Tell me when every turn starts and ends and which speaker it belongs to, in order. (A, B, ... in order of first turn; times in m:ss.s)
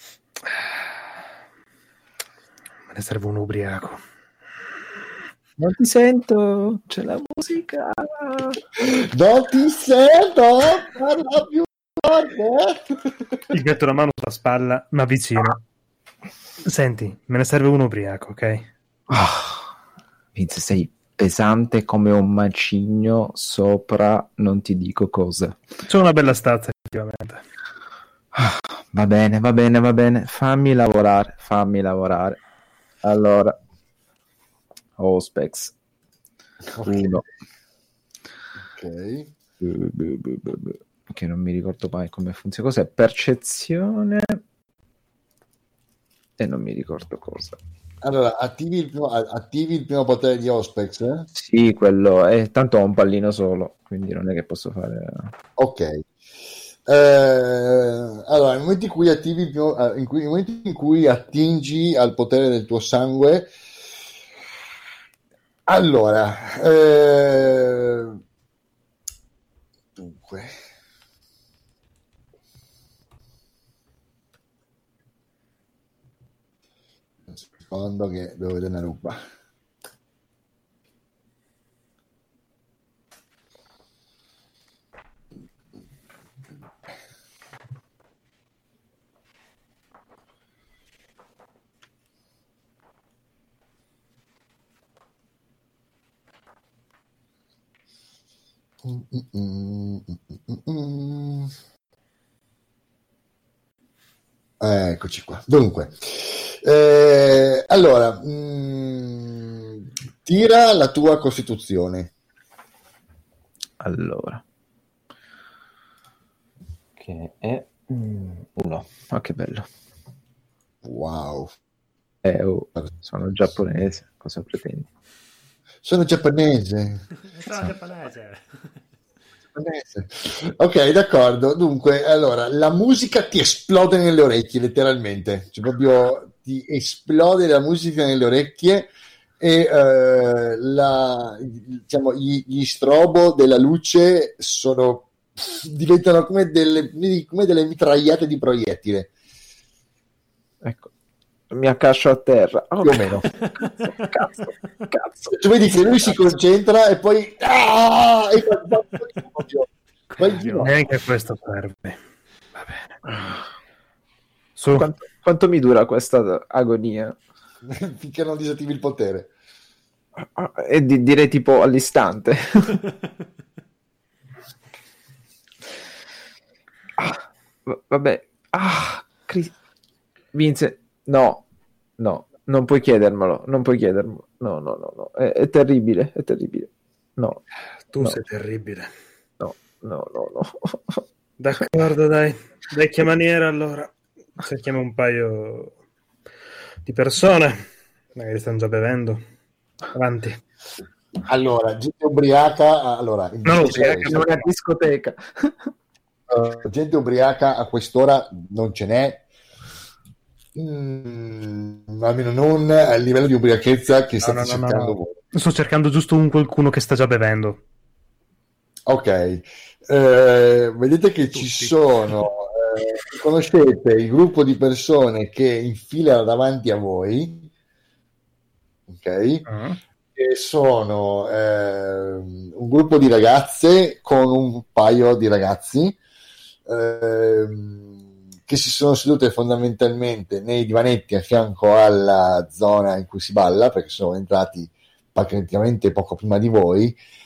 0:02.9-0:04.0 A
0:05.6-0:08.6 B
0:08.8-0:13.5 C
0:13.5-0:15.6 A
0:16.6-0:18.7 A
0:19.1-0:19.7 B
0:20.4-0:25.6 B
0:25.8-0:27.4 A
0:28.4-0:32.4 B
0:33.0-0:33.6 B
0:35.0-0:35.8 B
0:36.7-0:37.2 C
0:36.8-0:37.2 B
0:38.7-0:39.3 C
0:39.6-0:44.4 B
0:46.4-0:47.6 B
0:48.0-0:51.3 C
0:51.3-0:55.3 B
0:55.6-0:56.0 C
0:56.9-1:03.5 C
1:05.7-1:08.2 C
1:10.0-1:10.6 C
1:17.3-1:19.2 C
1:38.8-1:41.5 C
1:44.6-1:52.1 C
1:53.8-1:54.4 B
1:57.0-1:59.7 B
2:00.8-2:01.5 C
2:02.2-2:04.9 B
2:05.8-2:07.7 C
2:07.3-2:08.6 D
2:09.6-2:29.1 C
2:30.6-2:30.9 B
2:31.5-2:33.2 B
2:32.8-2:33.3 C
2:33.3-2:33.9 D
2:34.0-2:35.3 B
2:35.3-2:40.7 C
2:40.1-2:40.8 D
2:40.6-2:42.0 A
2:42.6-2:43.0 A
2:44.6-2:44.9 A
2:44.7-2:47.2 B
2:47.6-2:49.3 C
2:50.4-2:52.8 B
2:57.0-2:59.5 B
3:00.3-3:01.4 B
3:02.0-3:07.4 B
3:07.9-3:08.9 A
3:09.4-3:11.0 B
3:11.4-3:15.8 A
3:16.8-3:19.2 A
3:19.9-3:20.4 A
3:21.2-3:24.2 C
3:23.5-3:24.5 A
3:23.9-3:25.7 B
3:26.3-3:29.2 C
3:30.6-3:35.2 C
3:34.2-3:37.6 A
3:38.9-3:47.5 C
3:41.4-3:41.7 A
3:48.9-3:49.4 C
3:49.5-3:49.8 A
3:50.2-3:56.0 C
3:56.7-4:07.0 C